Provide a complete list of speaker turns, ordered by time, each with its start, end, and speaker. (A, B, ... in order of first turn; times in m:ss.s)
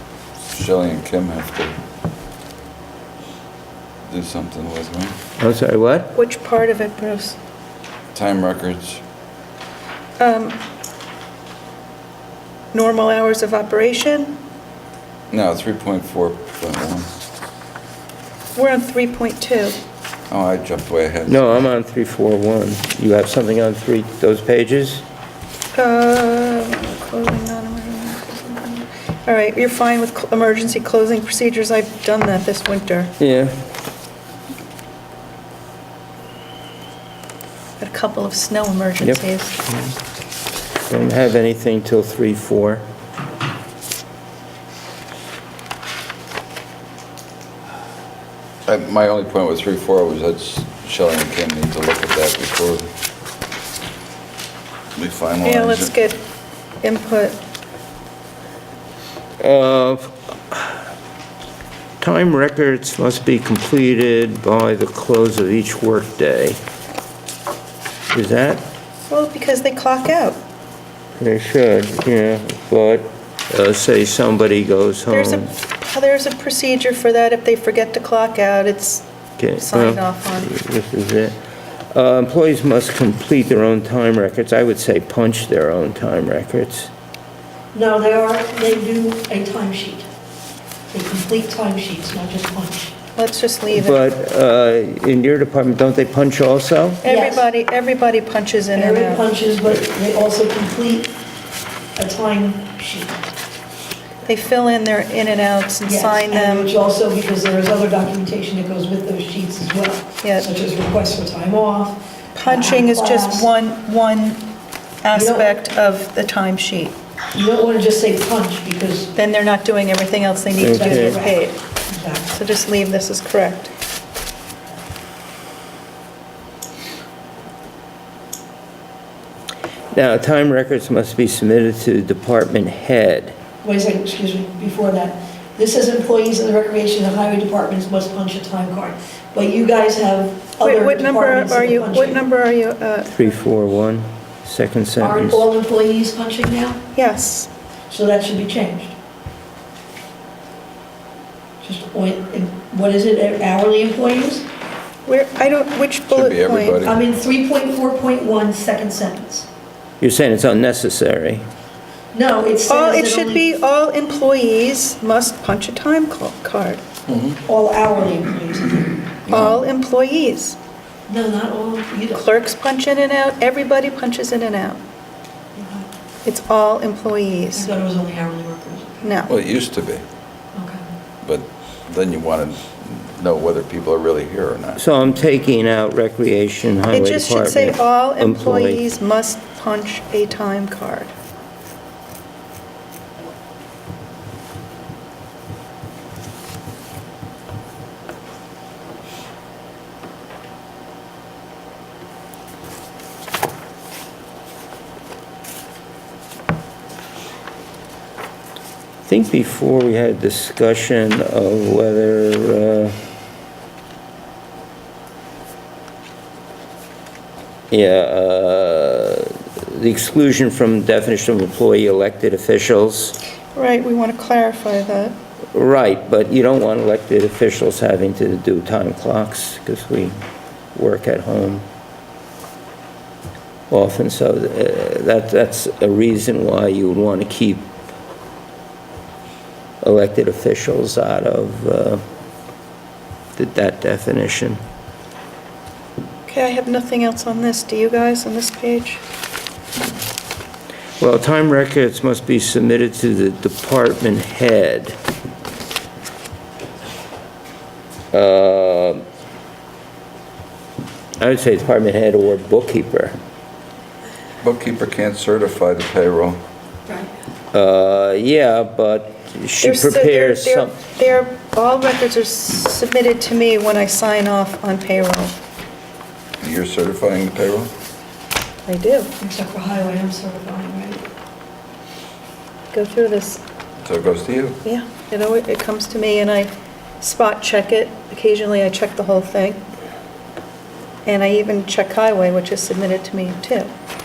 0:00.4-0:01.8 A
0:04.1-0:05.1 A
0:05.4-0:06.1 B
0:06.2-0:07.4 C
0:08.1-0:09.0 A
0:10.2-0:10.6 C
0:12.7-0:14.4 C
0:15.3-0:17.1 A
0:18.6-0:19.8 C
0:20.3-0:21.6 A
0:21.3-0:25.0 B
0:25.7-0:33.1 C
0:33.2-0:33.5 B
0:37.8-0:39.6 C
0:39.0-0:40.0 B
0:40.9-0:42.8 B
0:48.7-0:52.9 A
0:55.0-0:55.9 A
0:55.4-0:56.2 C
0:56.8-0:57.4 C
0:59.4-1:00.8 B
1:02.0-1:06.6 B
1:08.1-1:08.6 B
1:09.1-1:10.4 C
1:11.2-1:15.5 B
1:15.1-1:20.5 C
1:19.4-1:21.4 B
1:21.9-1:26.9 B
1:27.7-1:30.1 D
1:30.9-1:33.0 D
1:33.2-1:34.0 C
1:33.7-1:37.0 B
1:37.0-1:39.2 C
1:37.1-1:37.5 D
1:38.7-1:41.1 D
1:42.0-1:43.3 D
1:44.2-1:46.7 C
1:45.8-1:53.5 D
1:50.2-1:50.5 C
1:52.3-1:54.5 C
1:55.0-1:57.0 C
1:55.1-1:55.5 D
1:57.3-1:59.1 D
1:59.1-2:01.6 C
2:00.6-2:01.2 B
2:00.6-2:02.3 D
2:02.3-2:03.7 C
2:09.9-2:13.4 B
2:13.6-2:22.2 D
2:20.6-2:23.3 C
2:23.1-2:25.5 B
2:25.0-2:26.8 D
2:26.9-2:27.5 C
2:27.9-2:28.9 D
2:31.6-2:34.5 D
2:35.1-2:36.9 C
2:36.1-2:37.0 A
2:36.8-2:39.5 D
2:40.0-2:41.4 B
2:42.1-2:43.4 D
2:42.7-2:46.8 C
2:47.1-2:47.4 A
2:47.5-2:49.0 D
2:49.3-2:49.6 A
2:49.3-2:50.6 C
2:51.1-2:52.2 D
2:52.1-2:54.8 C
2:55.6-2:55.9 D
2:56.2-2:57.7 C
2:57.6-2:59.3 D
2:59.0-2:59.3 C
2:59.3-3:00.0 A
3:00.5-3:00.8 D
3:01.2-3:04.8 A
3:04.8-3:08.8 B
3:06.9-3:11.1 C
3:29.0-3:33.0 B
3:37.7-3:43.2 B
3:43.5-3:45.2 C
3:45.5-3:50.2 B
3:50.7-3:51.6 B
3:53.7-3:57.6 B
3:59.8-4:02.0 B
4:03.4-4:04.6 B
4:06.3-4:09.0 C
4:11.0-4:15.0 B
4:18.1-4:19.0 B
4:21.2-4:23.2 B
4:24.4-4:26.4 A
4:27.5-4:30.7 B
4:29.6-4:35.4 C
4:36.4-4:37.7 A
4:38.7-4:39.1 C
4:39.2-4:41.0 D
4:42.7-4:43.4 C
4:43.8-4:44.6 A
4:44.6-4:49.6 C
4:51.0-4:53.7 C